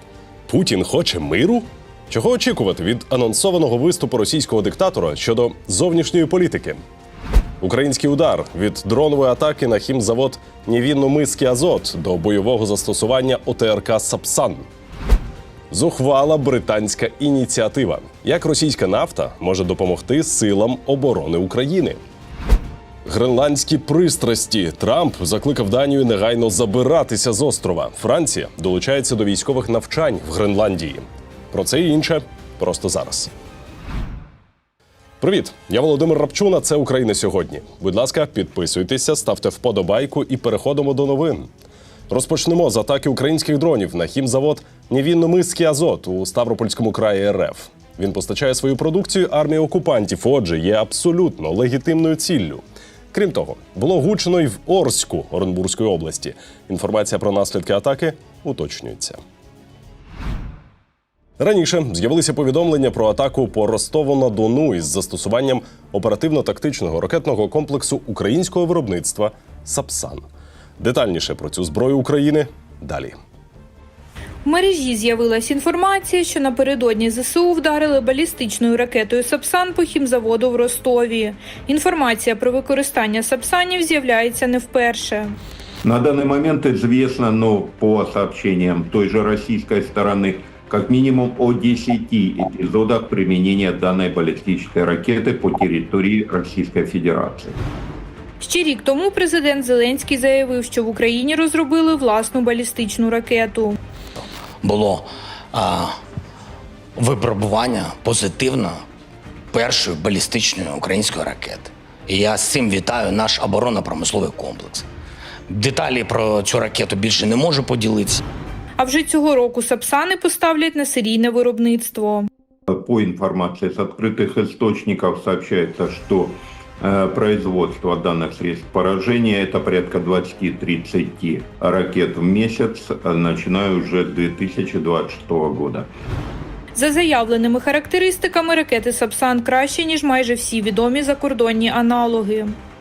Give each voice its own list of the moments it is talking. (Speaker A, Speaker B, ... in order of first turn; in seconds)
Speaker A: 0.5-6.8, 7.6-14.6, 15.7-22.0, 23.0-33.3, 35.2-41.5, 42.1-59.2, 61.4-70.2, 70.8-73.1
Speaker B: 74.4-85.4, 98.4-103.8, 118.8-122.3, 136.7-142.6
Speaker C: 85.8-97.6, 122.7-135.9
Speaker D: 104.6-106.0, 107.0-108.8, 109.5-114.8, 115.5-118.2